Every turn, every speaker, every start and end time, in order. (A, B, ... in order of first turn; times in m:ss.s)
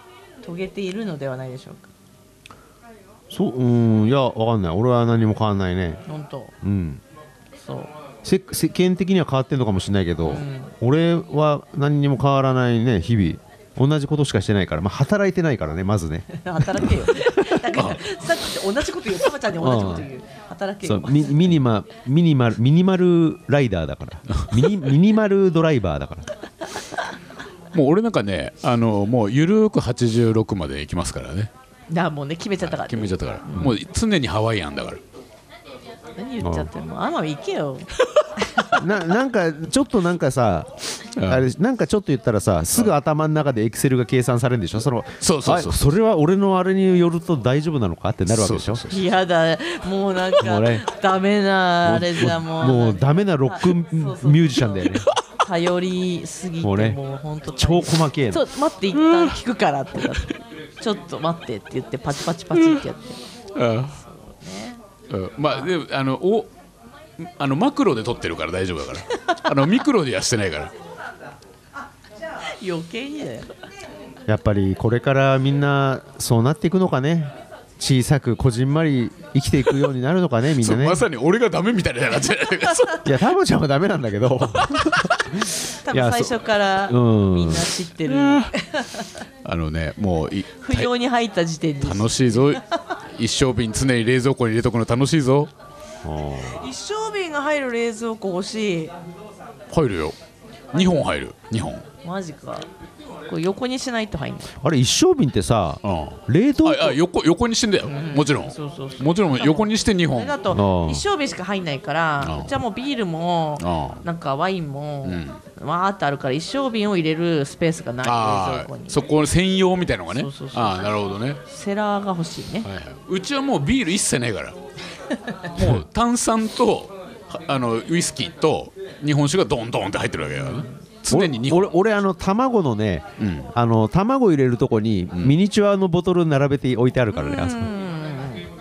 0:00.4-0:01.9 A
0:03.3-0:06.0 B
0:06.0-0:06.5 A
0:06.6-0:07.0 B
0:07.6-0:07.9 A
0:08.2-0:17.6 B
0:10.2-0:10.7 A
0:16.3-0:21.5 A
0:17.7-0:18.0 C
0:19.6-0:20.1 B
0:20.8-0:26.3 B
0:27.7-0:31.5 C
0:31.9-0:33.6 A
0:32.6-0:35.0 C
0:36.2-0:38.8 A
0:36.4-0:36.7 B
0:38.7-0:48.8 B
0:41.2-0:41.5 C
0:45.2-0:45.8 C
0:48.3-0:49.1 C
0:48.9-1:03.2 A
0:50.4-0:50.8 B
0:51.8-0:55.1 B
0:56.6-0:57.0 B
0:57.6-0:58.4 B
0:59.0-0:59.3 C
1:03.5-1:03.9 C
1:03.9-1:04.8 A
1:05.1-1:06.5 C
1:05.5-1:05.7 A
1:07.2-1:10.7 C
1:12.6-1:13.5 A
1:14.3-1:21.0 B
1:20.6-1:23.0 C
1:22.6-1:23.0 A
1:23.0-1:27.8 B
1:25.5-1:29.2 A
1:28.1-1:28.5 C
1:29.4-1:30.9 C
1:30.6-1:32.8 A
1:31.8-1:32.6 C
1:33.1-1:35.5 C
1:36.0-1:36.7 B
1:36.4-1:38.9 A
1:39.7-1:40.2 C
1:40.7-1:41.8 C
1:42.0-1:42.7 A
1:43.3-1:44.5 A
1:44.6-1:47.0 B
1:45.8-1:50.4 C
1:47.8-1:59.0 A
1:50.4-1:51.1 B
1:52.2-1:52.6 C
1:53.6-1:54.0 C
1:55.0-1:55.4 C
1:58.0-2:01.4 C
2:00.1-2:02.7 A
2:02.6-2:04.6 C
2:05.1-2:05.4 A
2:05.5-2:11.8 C
2:05.6-2:05.8 B
2:10.4-2:10.7 A
2:11.1-2:17.7 B
2:13.2-2:13.5 C
2:17.1-2:18.5 A